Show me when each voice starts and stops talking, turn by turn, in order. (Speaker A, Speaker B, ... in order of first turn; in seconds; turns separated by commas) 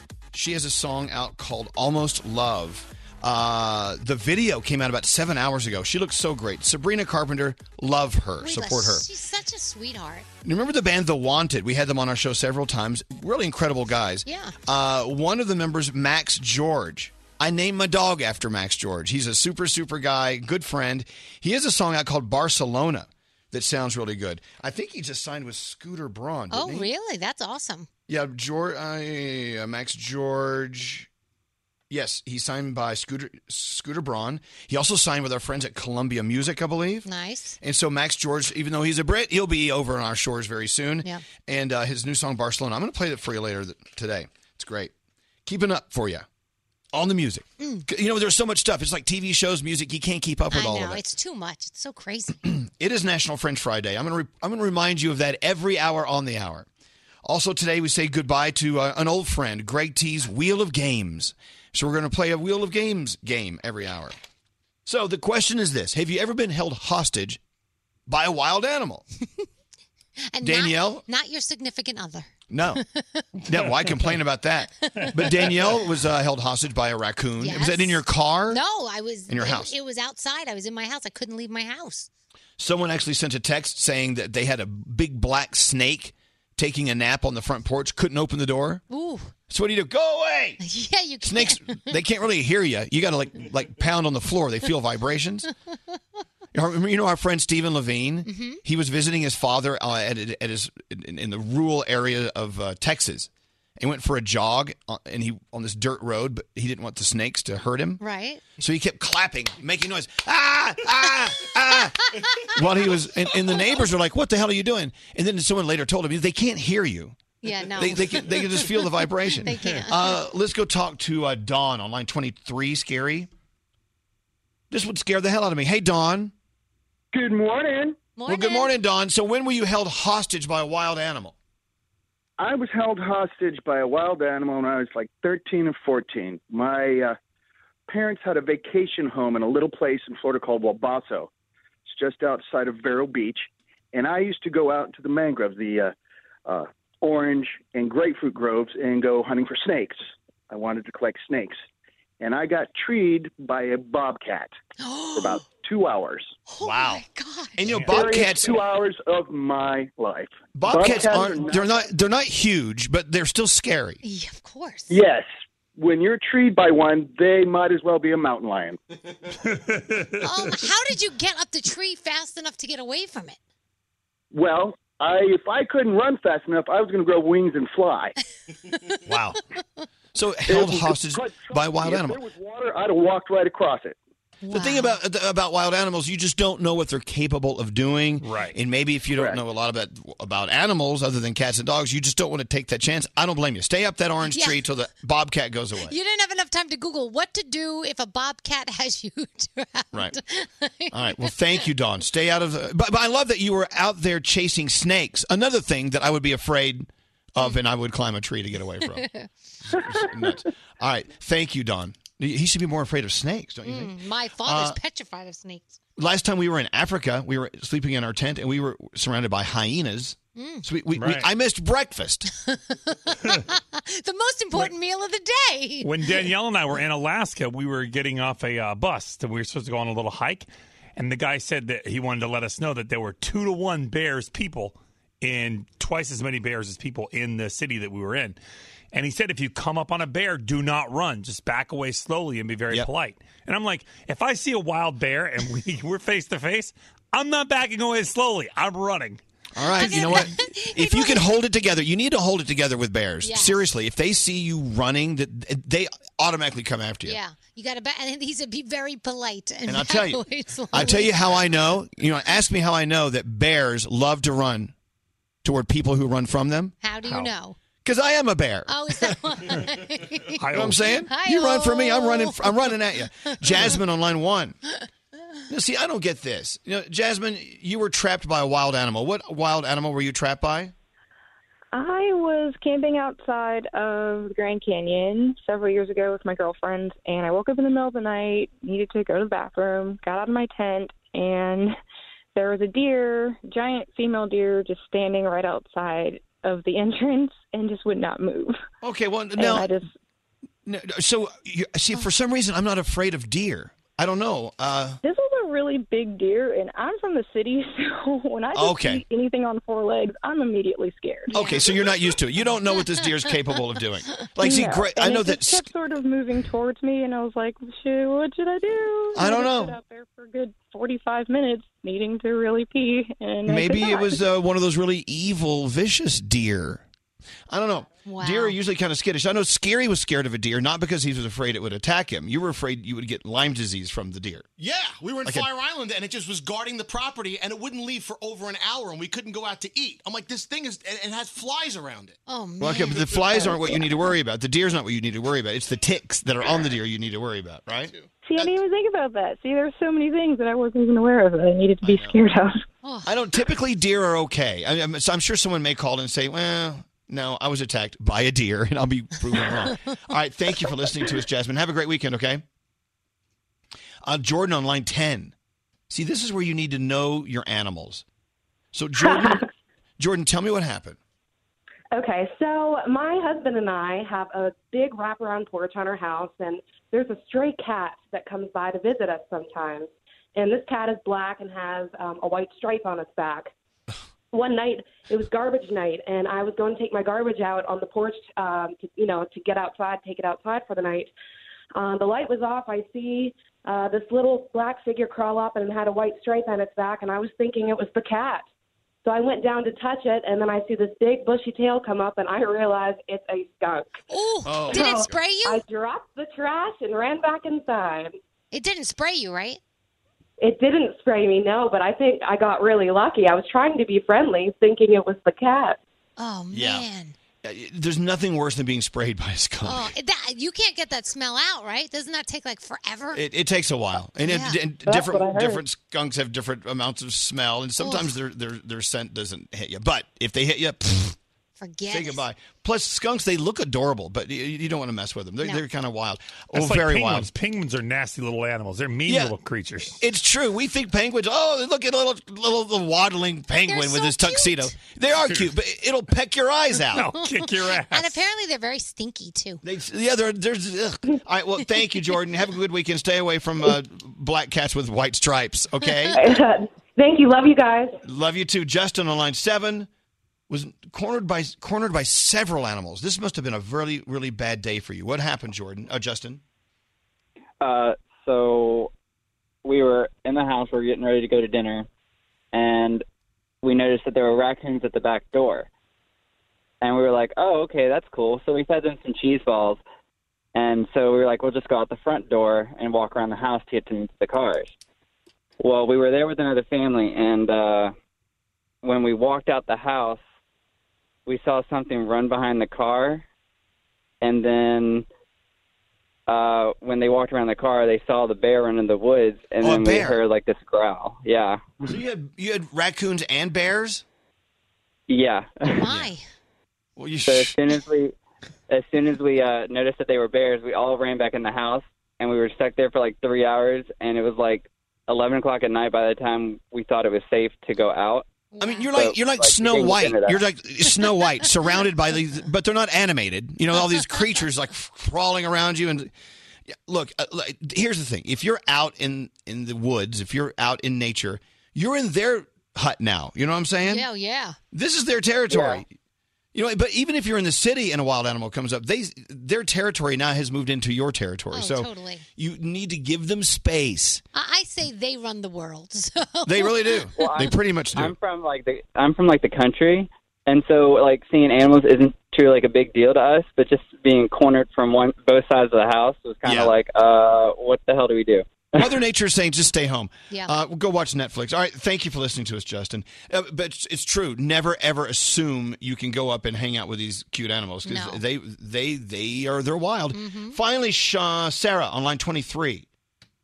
Speaker A: 0.3-9.1, Speaker B: 8.4-10.3, Speaker A: 10.4-26.9, Speaker B: 14.3-14.6, Speaker B: 26.5-27.9, Speaker A: 28.1-31.1, Speaker A: 31.9-37.1, Speaker B: 37.0-37.6, Speaker A: 37.6-44.9, Speaker A: 45.5-46.2, Speaker A: 46.9-51.0, Speaker B: 47.6-47.9, Speaker B: 50.5-52.4, Speaker A: 52.5-56.7, Speaker A: 57.2-64.2, Speaker A: 64.9-67.4, Speaker A: 68.1-69.0, Speaker B: 70.3-72.3, Speaker A: 70.4-71.0, Speaker A: 72.5-72.8, Speaker B: 73.0-73.2, Speaker A: 73.5-78.6, Speaker B: 77.4-82.1, Speaker A: 79.3-79.7, Speaker A: 82.6-88.8, Speaker B: 88.9-89.3, Speaker A: 89.5-90.6, Speaker B: 90.6-91.8, Speaker A: 91.2-95.5, Speaker A: 96.5-108.0, Speaker B: 98.3-98.6, Speaker B: 108.0-108.5, Speaker A: 108.6-117.2, Speaker B: 117.4-120.2, Speaker A: 117.8-123.3, Speaker A: 124.7-126.3, Speaker C: 127.1-128.0, Speaker B: 128.2-128.7, Speaker A: 128.3-131.3, Speaker C: 132.4-137.2, Speaker C: 137.9-141.3, Speaker C: 141.9-145.9, Speaker C: 146.5-151.6, Speaker C: 152.2-154.5, Speaker B: 154.8-155.4, Speaker C: 155.2-156.4, Speaker B: 156.5-157.8, Speaker A: 156.6-157.0, Speaker A: 157.6-158.6, Speaker C: 157.8-161.9, Speaker A: 160.6-164.0, Speaker B: 164.0-165.0, Speaker C: 164.9-168.8, Speaker D: 169.4-170.3, Speaker B: 170.2-173.4, Speaker C: 174.3-178.1, Speaker A: 179.1-179.4, Speaker A: 180.1-182.2, Speaker C: 180.5-184.0, Speaker B: 184.4-185.0, Speaker A: 184.5-195.9, Speaker D: 188.2-188.6, Speaker C: 189.2-189.4, Speaker B: 194.3-194.6, Speaker B: 195.9-201.3, Speaker A: 200.9-209.0, Speaker B: 208.9-209.3, Speaker A: 209.7-214.8, Speaker B: 213.7-215.8, Speaker A: 216.0-222.3, Speaker B: 220.4-220.7, Speaker D: 221.0-221.3, Speaker B: 222.4-226.3, Speaker D: 225.8-238.4, Speaker D: 238.9-249.2, Speaker A: 249.6-257.2, Speaker B: 249.8-251.3, Speaker D: 249.8-250.1, Speaker B: 253.2-253.6, Speaker B: 257.1-261.5, Speaker A: 259.7-264.7, Speaker A: 265.4-267.3, Speaker B: 266.8-267.6, Speaker A: 267.8-268.7, Speaker B: 268.7-270.4, Speaker D: 270.4-270.8, Speaker A: 270.5-274.6, Speaker B: 271.1-272.7, Speaker A: 275.5-280.7, Speaker E: 281.7-291.8, Speaker E: 292.4-298.6, Speaker A: 298.8-299.7, Speaker E: 299.4-299.9, Speaker A: 300.7-305.0, Speaker E: 305.0-311.3, Speaker A: 308.5-309.0, Speaker A: 311.3-315.7, Speaker B: 311.3-311.8, Speaker E: 314.4-324.2, Speaker A: 319.1-319.8, Speaker A: 323.5-326.8, Speaker A: 327.5-334.5, Speaker B: 328.1-328.6, Speaker F: 334.6-342.2, Speaker B: 342.3-343.6, Speaker A: 342.6-347.9, Speaker F: 347.9-348.5, Speaker E: 348.2-352.6, Speaker A: 351.8-352.2, Speaker B: 352.8-353.1, Speaker A: 353.1-362.4, Speaker A: 364.0-365.3, Speaker A: 365.9-368.0, Speaker A: 368.7-369.4, Speaker G: 369.0-369.3, Speaker A: 370.0-371.0, Speaker G: 371.9-383.5, Speaker G: 384.3-391.1, Speaker G: 391.8-398.5, Speaker G: 399.0-404.0, Speaker B: 404.1-405.6, Speaker A: 404.5-405.1, Speaker G: 404.7-408.1, Speaker B: 408.5-409.6, Speaker G: 410.4-415.8, Speaker B: 416.2-417.1, Speaker A: 416.5-416.9, Speaker A: 417.4-419.9, Speaker B: 419.6-423.2, Speaker A: 423.1-431.2, Speaker B: 424.2-424.6, Speaker B: 427.8-428.1, Speaker B: 431.6-432.2, Speaker A: 431.9-437.3, Speaker D: 436.5-440.0, Speaker A: 439.1-439.4, Speaker A: 439.9-447.1, Speaker B: 443.6-444.7, Speaker D: 446.9-448.2, Speaker B: 447.2-449.6, Speaker A: 449.6-456.2, Speaker G: 456.1-458.0, Speaker A: 458.0-459.9, Speaker A: 460.5-466.4, Speaker H: 467.6-468.9, Speaker H: 469.6-471.9, Speaker H: 472.5-473.0, Speaker H: 473.6-475.7, Speaker H: 476.8-479.8, Speaker H: 480.6-484.7, Speaker H: 485.6-487.9, Speaker H: 488.8-490.2, Speaker H: 491.3-493.2, Speaker H: 494.2-495.1, Speaker H: 496.3-501.6, Speaker A: 499.6-500.2, Speaker A: 501.8-504.0, Speaker H: 505.1-505.8, Speaker B: 505.7-506.2, Speaker A: 505.8-506.1, Speaker A: 507.0-507.6, Speaker H: 507.3-508.1, Speaker H: 508.7-518.3, Speaker B: 518.5-518.9, Speaker A: 518.6-526.1, Speaker H: 519.0-520.4, Speaker B: 523.8-524.2, Speaker A: 526.7-534.0, Speaker B: 533.8-534.6, Speaker A: 534.7-535.9, Speaker A: 536.5-544.2, Speaker B: 541.5-542.2, Speaker B: 544.4-547.0, Speaker A: 546.5-548.1, Speaker H: 547.2-558.4, Speaker A: 556.5-556.7, Speaker A: 558.8-572.9, Speaker B: 567.9-568.2, Speaker B: 570.1-570.6